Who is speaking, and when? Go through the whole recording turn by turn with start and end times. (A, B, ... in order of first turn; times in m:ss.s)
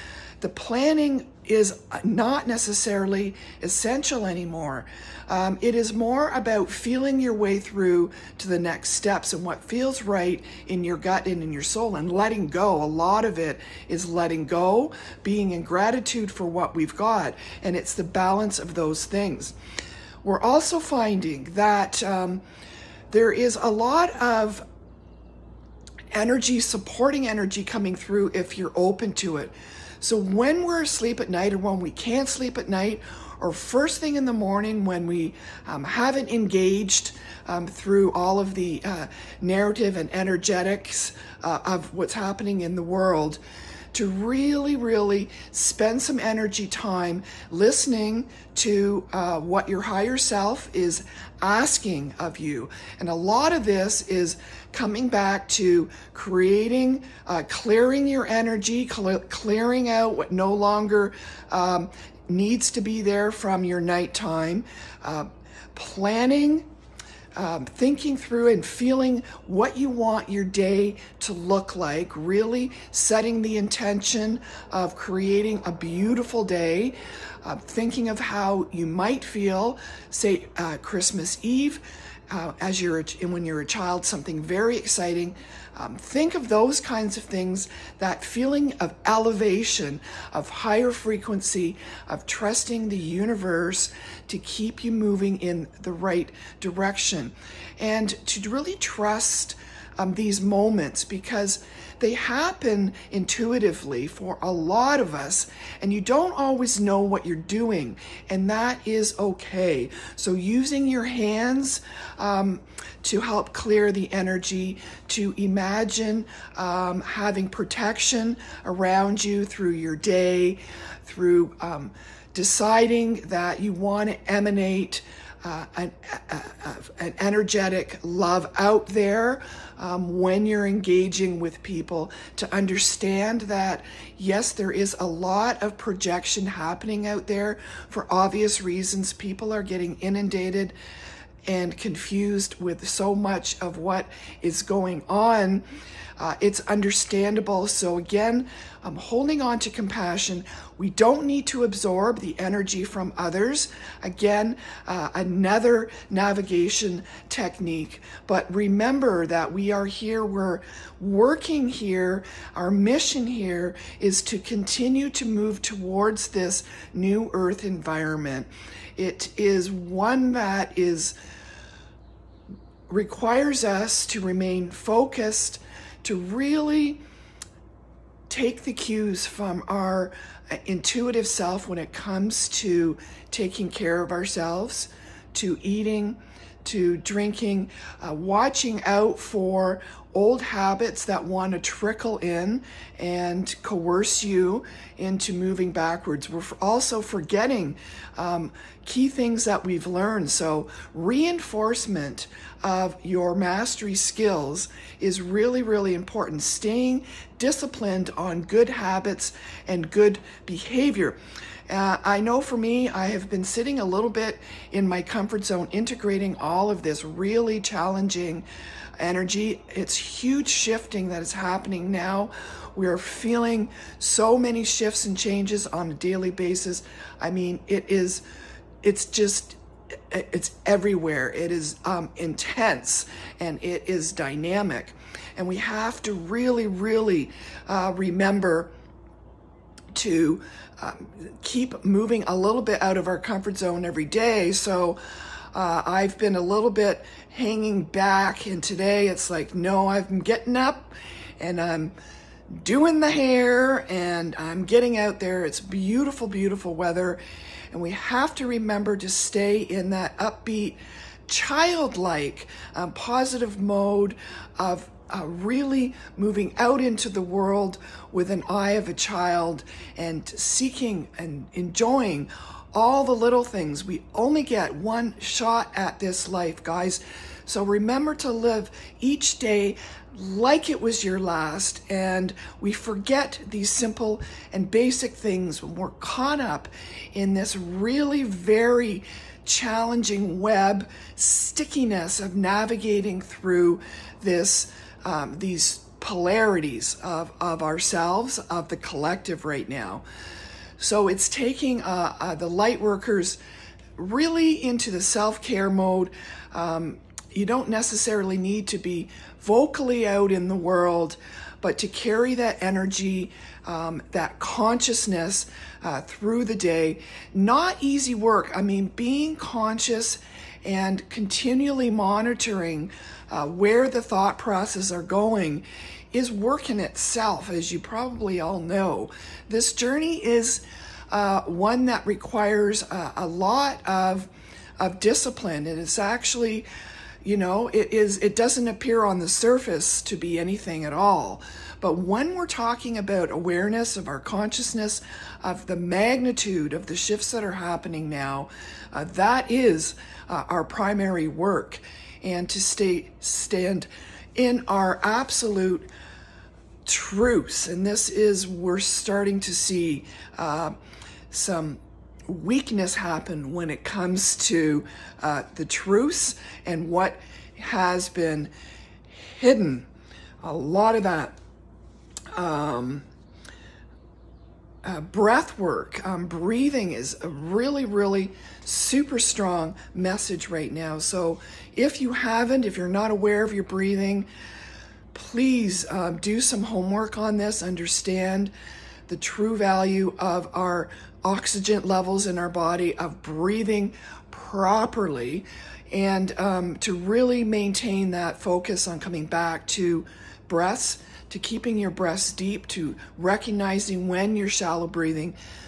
0:00.4-0:19.5 A
0:20.2-0:22.4 A
0:23.1-0:24.6 A
0:26.1-0:43.4 A
0:43.9-1:06.7 A
1:07.4-2:20.7 A
2:21.5-2:25.6 A
2:26.2-2:51.1 A
2:52.9-2:57.0 A
2:58.3-3:31.2 A
3:31.7-3:38.4 A
3:39.0-3:48.2 A
3:48.8-3:49.6 A
3:50.1-3:58.7 A
3:59.9-4:05.0 A
4:05.5-4:11.9 A
4:12.6-4:17.2 A
4:17.7-5:00.0 A
5:00.8-5:03.4 A
5:04.0-5:36.7 A
5:37.2-5:55.9 A
5:56.8-6:00.7 A
6:01.3-6:08.5 A
6:09.1-6:09.9 A
6:10.4-6:11.4 A
6:12.4-6:13.1 A
6:14.8-6:24.3 A
6:25.1-6:28.5 A
6:29.1-6:45.4 A